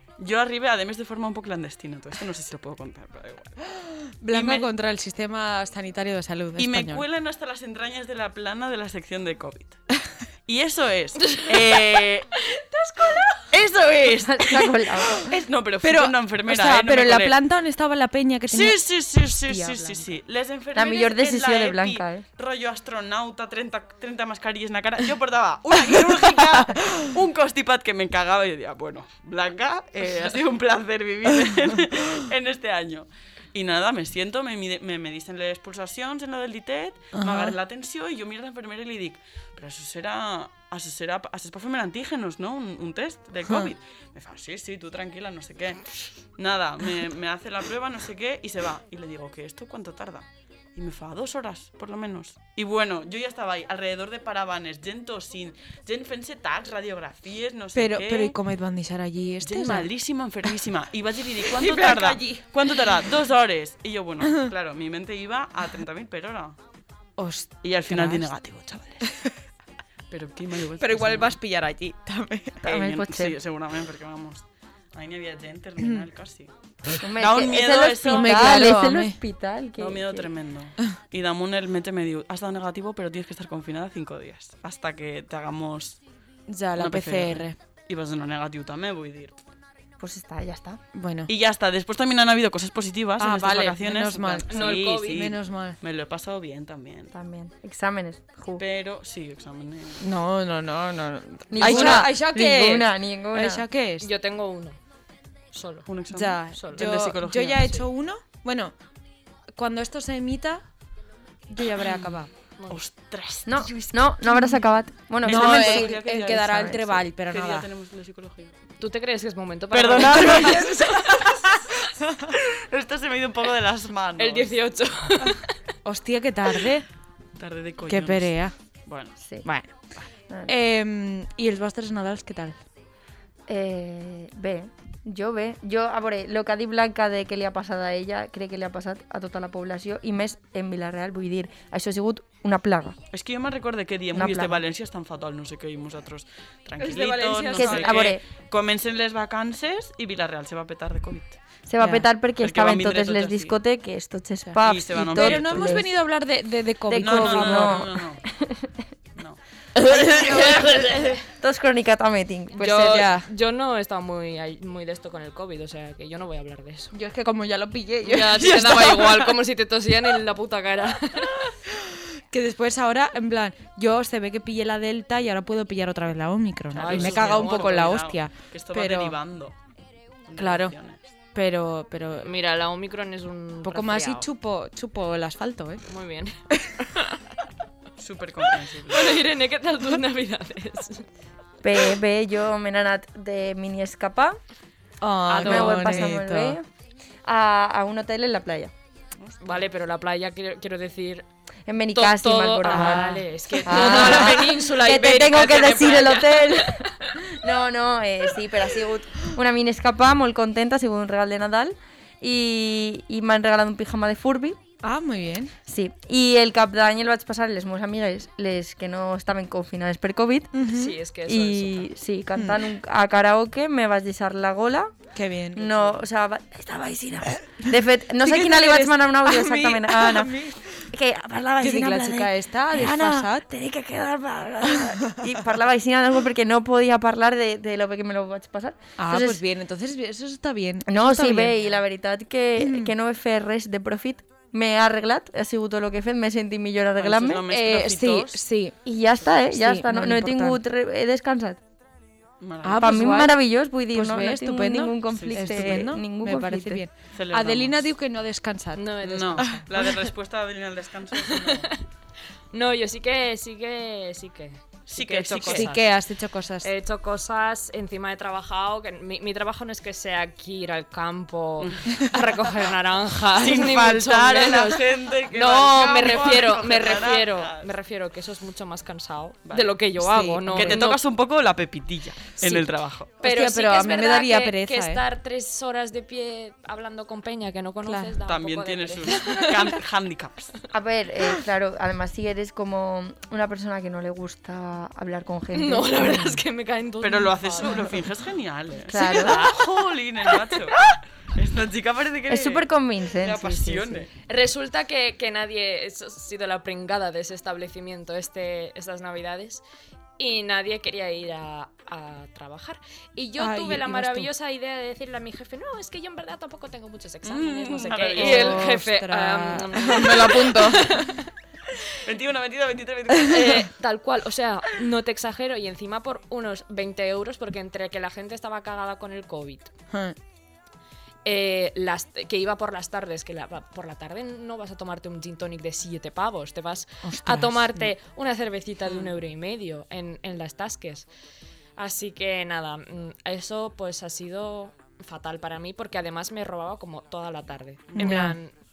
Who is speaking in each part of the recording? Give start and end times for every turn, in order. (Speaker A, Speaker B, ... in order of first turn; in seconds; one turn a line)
Speaker A: 0.2-3.8
Speaker B: 4.2-7.0
Speaker A: 4.3-4.7
Speaker A: 6.6-9.8
Speaker A: 10.5-12.3
Speaker C: 11.2-11.7
Speaker C: 12.3-13.5
Speaker A: 13.5-17.4
Speaker D: 14.1-15.3
Speaker B: 15.8-18.8
Speaker A: 18.5-45.9
Speaker B: 19.5-20.1
Speaker D: 20.8-22.2
Speaker B: 37.1-37.6
Speaker A: 46.4-58.4
Speaker B: 57.8-59.9
Speaker A: 59.4-66.6
Speaker B: 61.4-62.5
Speaker B: 67.2-68.3
Speaker A: 67.6-69.1
Speaker A: 70.1-71.4
Speaker B: 70.8-72.6
Speaker D: 72.6-73.3
Speaker A: 72.6-78.8
Speaker D: 77.0-80.3
Speaker B: 78.1-79.2
Speaker A: 79.8-86.0
Speaker B: 86.5-87.5
Speaker A: 86.8-89.4
Speaker D: 90.0-90.8
Speaker B: 90.9-91.3
Speaker A: 91.3-97.1
Speaker B: 93.2-95.8
Speaker C: 94.5-95.2
Speaker D: 97.1-98.6
Speaker A: 98.6-100.0
Speaker B: 100.0-104.1
Speaker D: 101.5-103.7
Speaker A: 101.6-102.1
Speaker C: 104.0-104.8
Speaker C: 105.5-105.9
Speaker A: 105.9-107.8
Speaker B: 106.1-108.7
Speaker C: 106.5-106.9
Speaker B: 109.5-110.6
Speaker B: 111.5-112.3
Speaker A: 111.8-112.2
Speaker A: 112.7-113.9
Speaker D: 113.5-116.8
Speaker B: 114.3-114.6
Speaker A: 115.2-118.5
Speaker B: 115.2-117.7
Speaker C: 118.8-121.3
Speaker A: 119.7-124.6
Speaker B: 120.1-120.6
Speaker C: 124.2-125.6
Speaker B: 125.8-126.9
Speaker A: 127.4-128.3
Speaker B: 127.9-128.5
Speaker A: 128.9-129.2
Speaker D: 129.2-129.5
Speaker B: 129.4-129.7
Speaker B: 130.5-132.6
Speaker D: 133.5-143.0
Speaker A: 143.1-151.4
Speaker D: 144.1-144.6
Speaker B: 146.8-148.1
Speaker D: 147.6-148.2
Speaker D: 151.7-155.9
Speaker B: 151.8-152.1
Speaker A: 152.4-153.6
Speaker A: 154.6-155.9
Speaker B: 155.1-157.9
Speaker D: 156.9-158.7
Speaker A: 157.0-158.2
Speaker D: 159.8-163.1
Speaker B: 159.9-160.6
Speaker A: 160.2-161.2
Speaker C: 162.6-166.9
Speaker B: 162.7-163.3
Speaker B: 166.9-169.4
Speaker C: 168.0-171.5
Speaker B: 171.7-179.2
Speaker A: 176.7-179.6
Speaker C: 176.8-177.6
Speaker A: 180.3-181.1
Speaker B: 180.4-180.8
Speaker B: 181.3-182.3
Speaker C: 182.2-184.3
Speaker B: 183.6-185.8
Speaker C: 185.9-187.2
Speaker B: 186.5-186.8
Speaker A: 188.0-189.2
Speaker C: 188.9-191.1
Speaker D: 191.6-194.4
Speaker B: 195.0-196.6
Speaker C: 195.3-196.1
Speaker D: 195.4-196.7
Speaker D: 197.2-198.7
Speaker C: 199.4-201.2
Speaker D: 201.7-206.9
Speaker C: 201.9-207.2
Speaker B: 202.7-204.5
Speaker D: 207.4-214.6
Speaker B: 214.8-215.5
Speaker D: 215.7-220.5
Speaker B: 220.5-220.9
Speaker C: 220.7-221.9
Speaker D: 221.3-239.4
Speaker B: 222.3-222.6
Speaker B: 225.2-225.9
Speaker B: 227.7-230.9
Speaker B: 231.6-233.5
Speaker B: 234.7-235.2
Speaker B: 239.0-241.6
Speaker D: 240.9-247.4
Speaker B: 242.6-242.9
Speaker A: 247.0-248.4
Speaker B: 247.5-248.8
Speaker D: 248.8-251.6
Speaker B: 249.5-250.6
Speaker A: 252.4-253.2
Speaker B: 252.6-253.4
Speaker D: 252.8-256.8
Speaker B: 253.9-259.6
Speaker A: 255.1-255.9
Speaker A: 257.1-257.9
Speaker C: 258.8-259.7
Speaker A: 259.0-261.7
Speaker C: 261.2-261.8
Speaker C: 262.5-265.9
Speaker A: 264.9-265.8
Speaker B: 265.4-266.7
Speaker C: 266.6-281.0
Speaker A: 271.6-272.1
Speaker A: 273.4-277.7
Speaker A: 279.5-279.7
Speaker B: 280.0-280.9
Speaker A: 280.5-283.1
Speaker B: 282.4-282.7
Speaker B: 283.2-285.0
Speaker C: 283.2-289.7
Speaker B: 287.8-288.2
Speaker A: 288.3-290.5
Speaker D: 290.7-296.3
Speaker C: 295.5-298.0
Speaker A: 297.0-304.1
Speaker D: 298.9-299.4
Speaker C: 299.0-299.6
Speaker C: 300.5-300.9
Speaker D: 302.3-304.1
Speaker C: 304.3-309.6
Speaker C: 310.2-321.2
Speaker B: 313.4-314.3
Speaker A: 317.2-318.7
Speaker B: 318.1-321.3
Speaker A: 321.9-323.7
Speaker C: 323.2-329.7
Speaker B: 329.9-330.2
Speaker C: 331.2-341.1
Speaker B: 337.0-337.9
Speaker C: 341.8-348.5
Speaker A: 347.9-348.3
Speaker B: 348.0-348.4